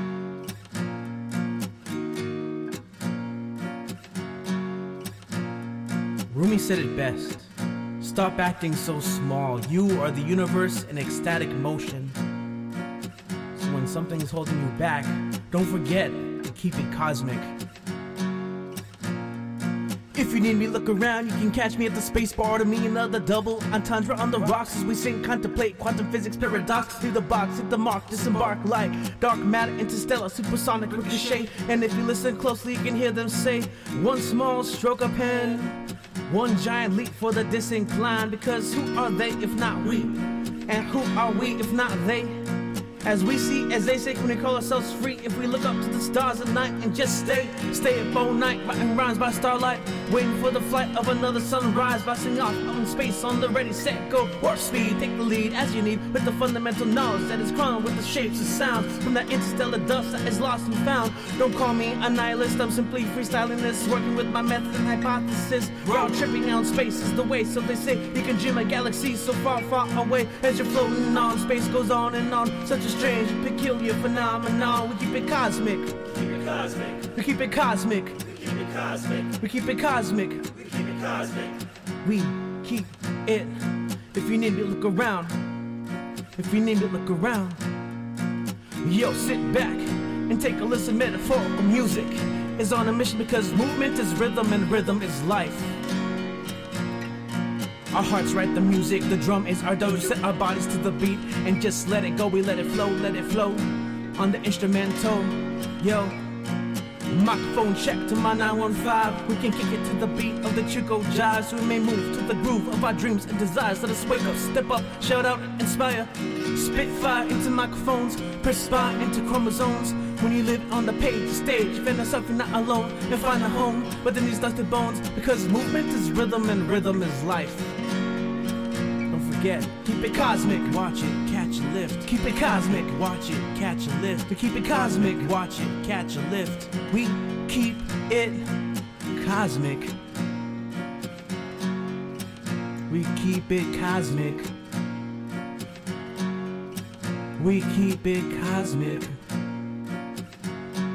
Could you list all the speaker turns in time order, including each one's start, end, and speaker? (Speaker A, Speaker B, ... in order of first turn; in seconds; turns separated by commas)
Speaker A: 6.3-7.5, Speaker A: 8.0-12.2, Speaker A: 13.6-17.5, Speaker A: 20.1-85.4, Speaker A: 86.3-87.7, Speaker A: 88.8-95.8, Speaker A: 97.9-106.3, Speaker A: 107.1-127.7, Speaker A: 129.1-138.6, Speaker A: 139.1-139.9, Speaker A: 142.9-144.5, Speaker A: 147.4-149.2